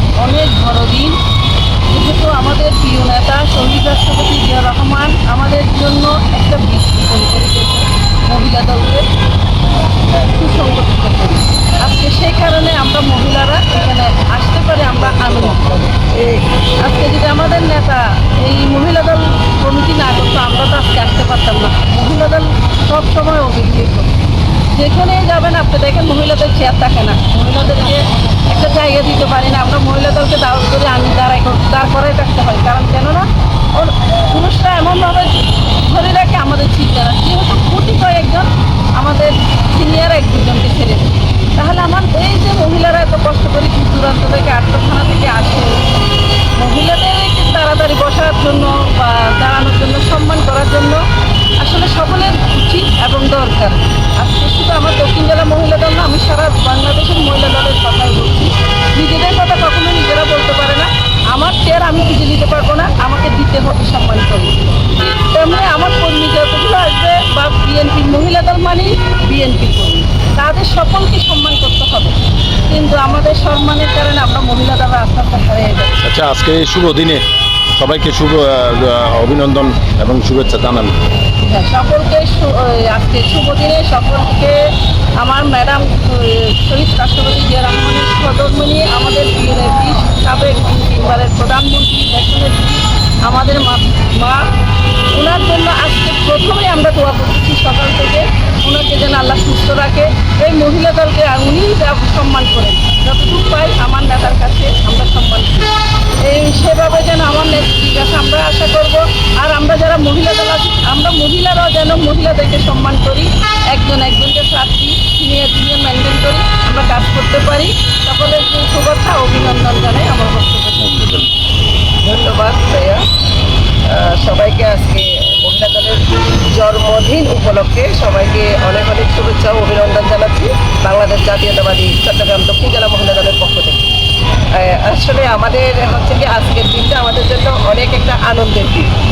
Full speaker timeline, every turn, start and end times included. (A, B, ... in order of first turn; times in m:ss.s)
0:00.2-0:01.2 A
0:01.9-0:09.1 A
0:10.2-0:15.9 A
0:15.9-0:16.5 B
0:16.8-0:24.1 A
0:24.7-0:45.8 A
0:46.6-0:51.0 A
0:51.6-1:15.9 A
1:16.0-1:17.2 C
1:17.8-1:21.0 C
1:21.4-1:34.5 A
1:35.1-1:45.7 A
1:46.2-2:01.3 A
2:00.9-2:01.2 C
2:02.0-2:03.0 B
2:03.9-2:13.9 B
2:14.5-2:18.9 B